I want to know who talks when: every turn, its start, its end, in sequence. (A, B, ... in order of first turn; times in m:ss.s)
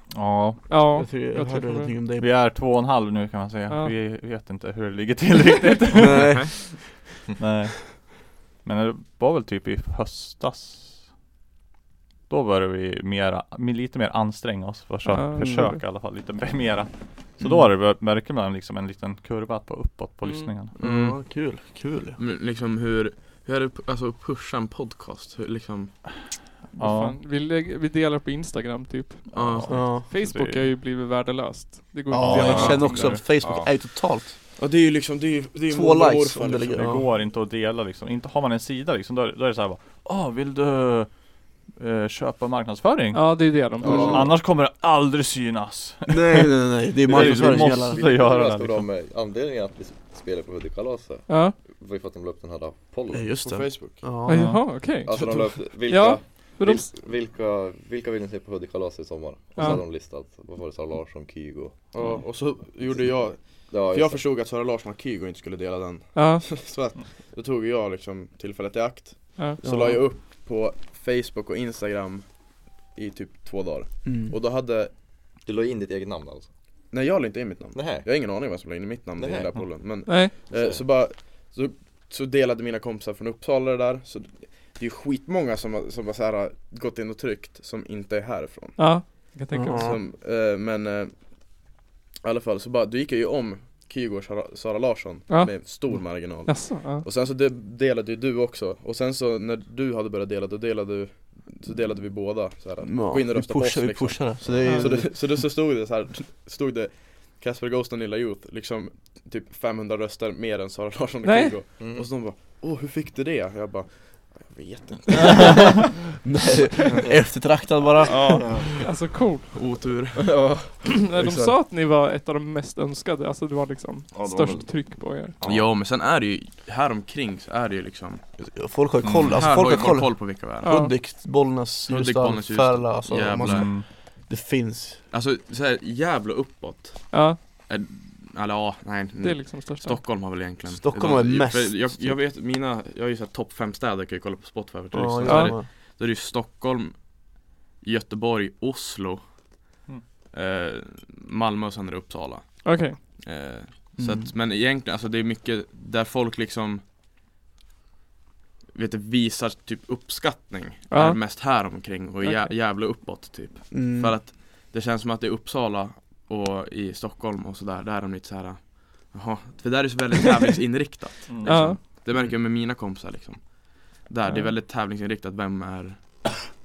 0:00.1-0:00.9 A
0:00.7-0:02.0 B
0:00.9-0:02.3 C
0:02.2-0:06.7 A
0:03.7-0:04.0 B
0:05.9-0:07.0 C
0:06.2-0:06.5 D
0:07.4-0:11.1 A
0:12.3-0:20.7 A
0:15.1-0:15.8 B
0:15.4-0:15.7 C
0:20.2-0:20.5 B
0:20.8-0:21.2 D
0:20.8-0:22.2 C
0:22.2-0:26.0 D
0:26.7-0:33.2 B
0:26.8-0:27.2 A
0:29.3-0:30.7 A
0:29.4-0:30.1 D
0:29.7-0:30.1 C
0:32.1-0:34.4 C
0:32.1-0:33.2 A
0:33.4-0:33.7 E
0:34.6-0:37.0 D
0:35.7-0:37.1 C
0:36.8-0:48.9 A
0:43.1-0:44.3 B
0:43.8-0:44.3 C
0:46.1-0:48.1 C
0:47.1-0:53.3 E
0:51.3-0:51.6 B
0:53.1-0:55.0 C
0:53.4-0:54.1 D
0:54.3-0:56.9 B
0:54.3-0:54.8 A
0:55.0-1:01.9 E
0:55.1-0:55.6 D
0:59.6-0:59.8 B
1:01.9-1:14.9 D
1:02.9-1:04.2 E
1:06.2-1:06.5 B
1:09.6-1:10.1 C
1:14.0-1:14.4 C
1:15.4-1:16.5 E
1:16.9-1:31.7 D
1:17.8-1:18.1 E
1:19.2-1:19.7 E
1:20.1-1:20.3 B
1:20.5-1:20.8 E
1:28.8-1:29.9 B
1:29.5-1:30.0 C
1:32.2-1:55.9 D
1:35.3-1:37.0 B
1:42.8-1:45.3 C
1:51.2-1:51.6 B
1:51.8-1:52.1 E
1:56.2-1:58.6 C
1:58.0-1:58.9 D
1:58.2-1:58.7 E
1:58.8-1:59.5 B
1:59.5-2:00.3 D
2:00.2-2:01.6 C
2:01.1-2:05.4 B
2:04.1-2:05.7 E
2:05.4-2:08.4 D
2:08.5-2:15.0 C
2:09.0-2:09.4 A
2:09.2-2:09.9 E
2:09.3-2:10.7 D
2:10.6-2:11.0 B
2:11.9-2:13.7 D
2:13.4-2:13.9 A
2:15.1-2:29.5 D
2:17.1-2:17.4 B
2:19.2-2:20.0 B
2:20.7-2:22.2 C
2:24.9-2:25.7 C
2:25.3-2:25.5 B
2:30.3-2:36.8 D
2:32.6-2:33.0 B
2:34.0-2:34.3 C
2:38.7-2:56.5 D
2:40.9-2:41.4 B
2:42.2-2:42.5 B
2:43.7-2:44.2 C
2:51.3-2:51.8 A
2:51.4-2:51.8 B